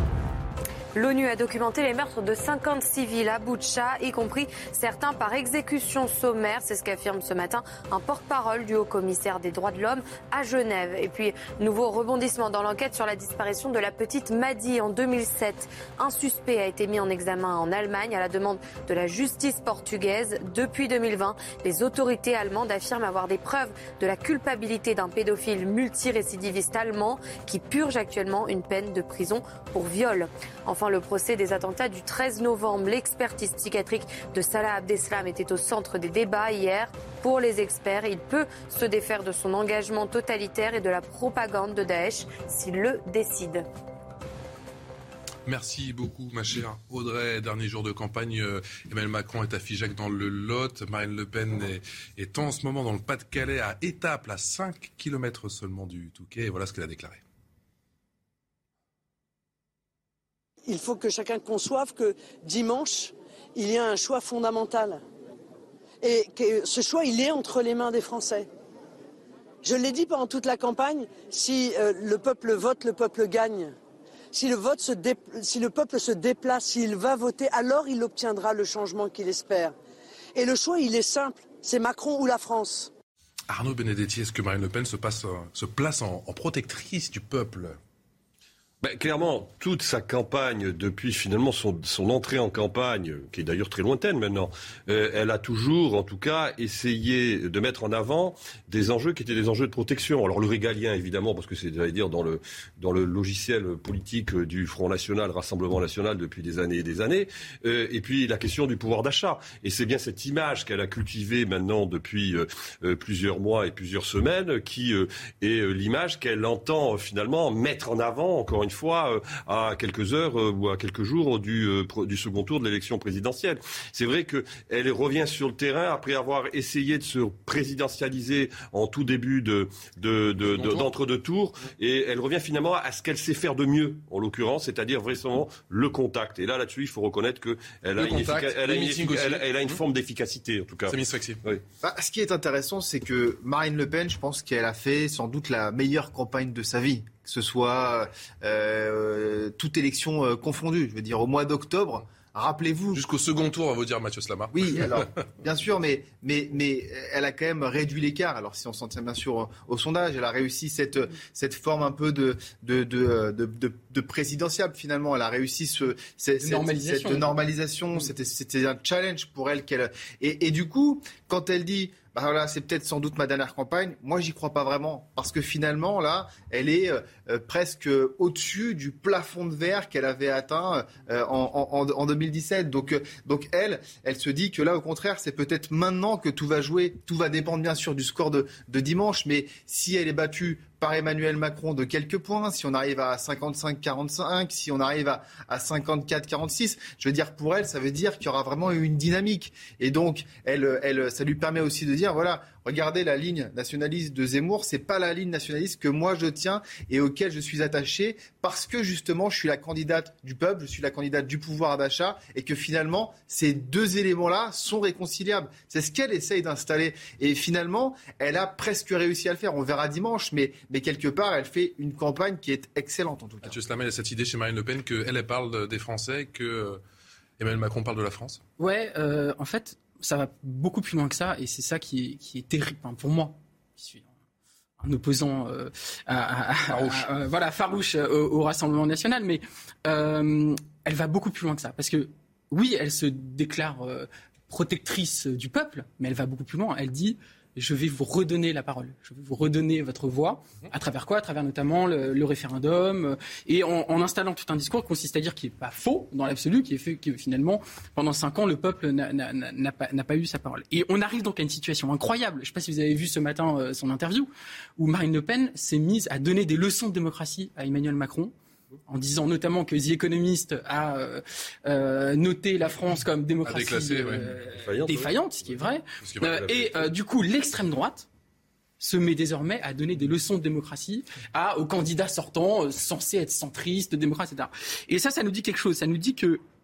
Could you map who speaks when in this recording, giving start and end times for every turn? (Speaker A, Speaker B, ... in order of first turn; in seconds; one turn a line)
Speaker A: 0.9-43.6
Speaker B: 45.5-57.2
Speaker C: 60.6-65.0
Speaker C: 66.0-68.5
Speaker C: 69.6-73.7
Speaker C: 74.3-79.7
Speaker C: 80.3-82.9
Speaker B: 83.5-87.8
Speaker D: 88.8-141.6
Speaker B: 130.5-130.9
Speaker B: 138.0-139.8
Speaker B: 140.9-141.4
Speaker E: 141.8-153.0
Speaker B: 152.9-154.9
Speaker E: 154.5-223.6
Speaker F: 166.4-167.3
Speaker B: 223.4-226.8
Speaker B: 227.4-228.4
Speaker F: 228.6-234.1
Speaker F: 234.8-268.3
Speaker B: 236.7-237.1
Speaker F: 268.9-278.1
Speaker B: 273.4-274.2
Speaker D: 274.5-275.5
Speaker D: 276.2-276.9
Speaker F: 278.8-286.4